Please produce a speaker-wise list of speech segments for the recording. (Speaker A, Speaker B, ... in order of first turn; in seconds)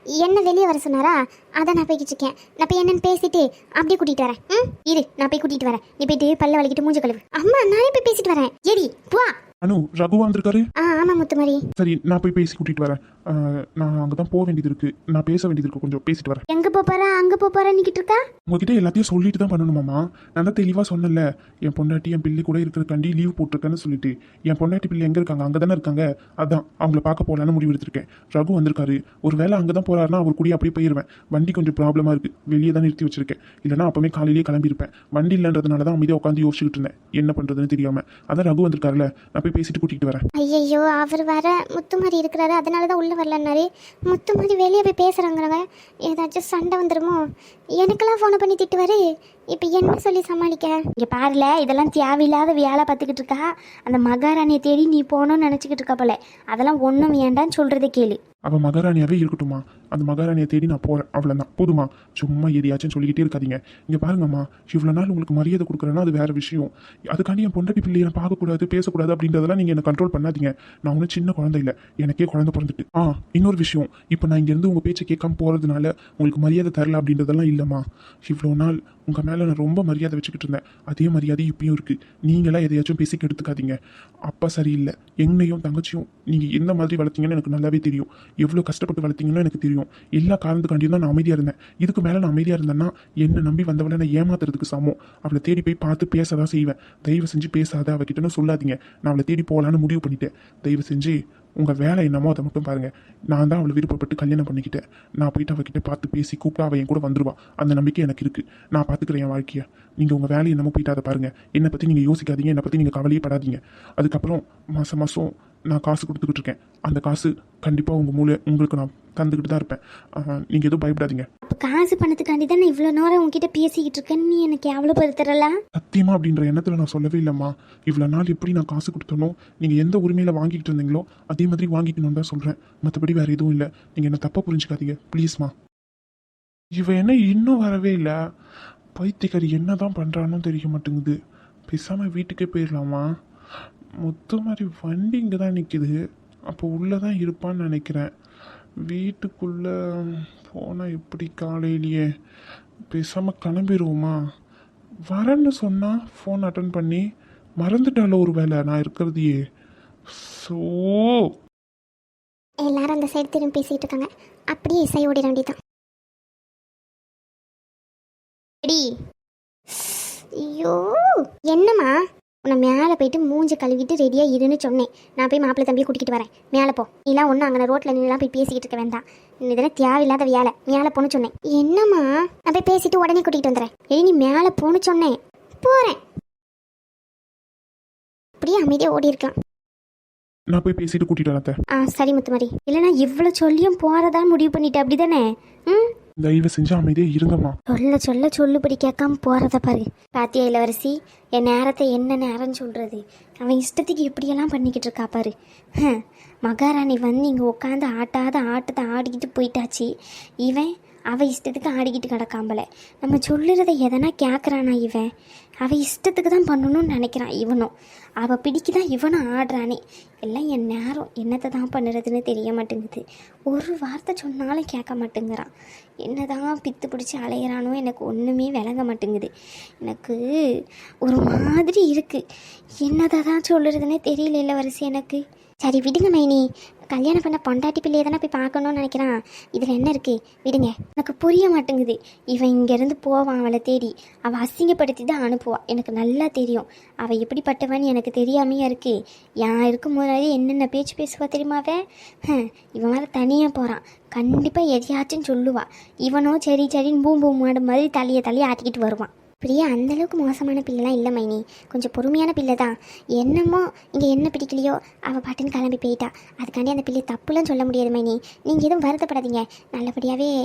Speaker A: 0.1-5.3, 7.3-9.4, 10.8-11.6, 40.5-43.6, 44.2-45.6, 46.2-47.2, 48.0-49.0, 49.7-50.8, 162.6-165.6, 168.7-168.9, 169.8-171.9, 172.5-174.0, 175.2-175.8, 176.4-179.0, 179.9-180.7, 181.4-183.7, 185.6-186.0, 188.4-189.3, 192.1-192.4, 259.4-262.1, 268.8-269.2
Speaker B: 5.2-7.2, 16.5-18.2, 51.0-58.2, 121.5-125.5, 173.9-178.2, 178.8-181.3, 183.7-185.2, 191.8-195.9, 197.7-209.9, 210.4-215.1, 215.6-225.5, 226.0-229.3, 229.8-230.2, 231.0-232.2, 232.8-259.1, 261.7-270.3
Speaker C: 9.6-10.6, 11.8-16.4, 18.5-40.2, 58.5-121.2, 125.8-135.5, 136.8-138.2, 139.0-141.2, 141.7-143.0, 144.0-145.9, 146.5-148.1, 148.9-152.1, 152.9-154.2, 155.1-157.0, 157.6-159.3, 160.1-161.3, 190.5-191.5, 196.2-197.6